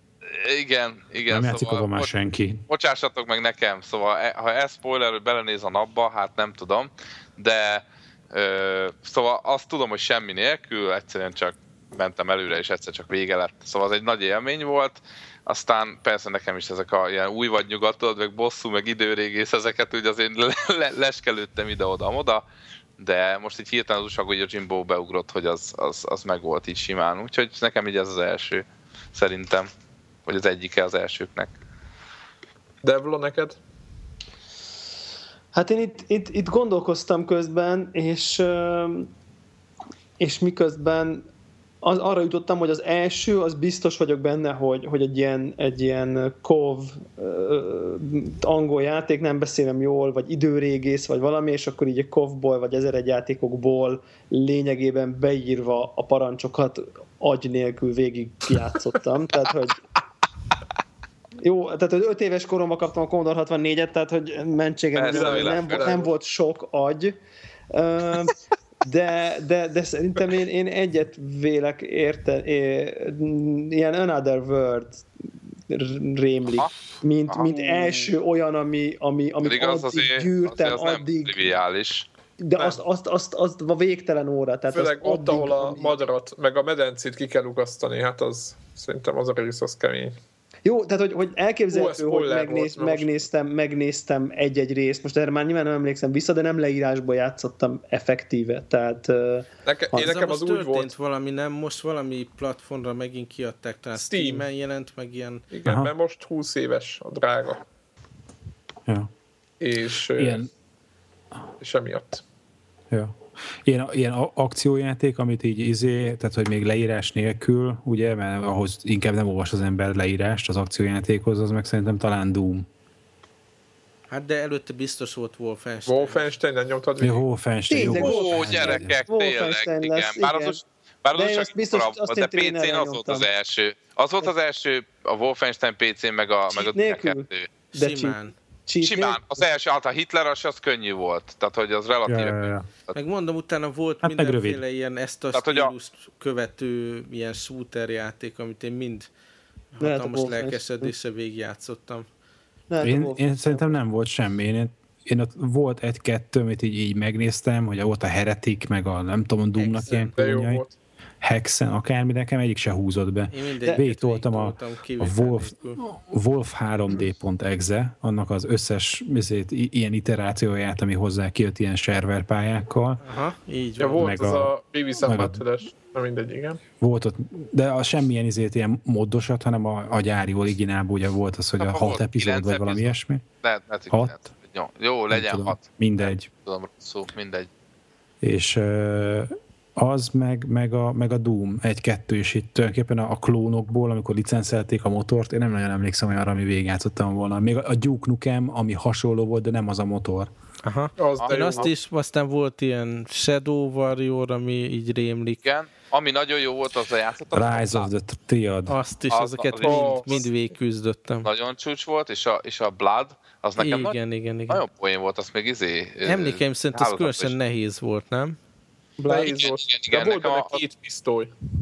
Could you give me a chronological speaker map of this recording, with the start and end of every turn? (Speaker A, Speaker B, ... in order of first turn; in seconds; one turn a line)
Speaker A: 0.3-2.1
Speaker B: 1.3-2.6
Speaker A: 2.7-22.4
Speaker A: 23.0-29.7
Speaker A: 30.2-31.5
Speaker C: 32.8-33.6
Speaker D: 35.5-39.1
Speaker D: 40.2-41.2
Speaker D: 41.8-59.8
Speaker D: 61.4-67.2
Speaker A: 64.9-65.9
Speaker C: 65.1-66.1
Speaker D: 67.7-75.0
Speaker D: 75.7-81.5
Speaker A: 77.3-77.5
Speaker C: 77.6-78.1
Speaker A: 79.4-82.1
Speaker D: 82.4-85.9
Speaker C: 84.7-90.1
Speaker D: 90.6-99.5
Speaker C: 91.7-93.2
Speaker C: 99.6-100.9
Speaker E: 99.9-105.5
Speaker C: 103.9-104.5
Speaker C: 105.5-107.6
Speaker B: 105.6-105.9
Speaker C: 109.6-110.5
Speaker B: 110.2-110.5
Speaker C: 111.6-112.2
Speaker B: 112.9-122.7
Speaker E: 124.1-126.3
Speaker C: 125.9-127.2
Speaker B: 127.0-128.9
Speaker D: 127.7-130.6
Speaker A: 127.8-137.5
Speaker D: 131.2-133.3
Speaker D: 136.6-139.5
Speaker E: 137.7-138.3
Speaker A: 138.8-142.9
Speaker B: 142.1-142.7
Speaker E: 142.9-149.1
Speaker B: 144.0-144.6
Speaker A: 145.3-145.7
Speaker E: 149.7-152.1
Speaker D: 149.8-150.9
Speaker D: 152.7-153.7
Speaker B: 152.8-160.6
Speaker E: 159.6-160.2
Speaker C: 159.9-160.7
Speaker B: 161.2-173.0
Speaker E: 163.3-165.8
Speaker E: 173.0-174.2
Speaker C: 173.8-176.6
Speaker B: 174.0-174.5
Speaker B: 175.0-175.4
Speaker B: 176.8-183.2
Speaker A: 181.6-187.5
Speaker B: 183.9-184.2
Speaker B: 185.1-186.3
Speaker B: 188.2-200.3
Speaker E: 200.6-205.4
Speaker C: 201.0-201.7
Speaker A: 201.2-201.5
Speaker A: 205.4-207.9
Speaker B: 207.3-208.8
Speaker E: 208.7-211.3
Speaker A: 209.1-210.2
Speaker C: 209.6-210.3
Speaker A: 211.2-213.9
Speaker E: 213.6-214.6
Speaker A: 214.5-217.3
Speaker E: 216.0-218.4
Speaker D: 219.0-219.3
Speaker C: 219.0-221.3
Speaker A: 219.3-220.6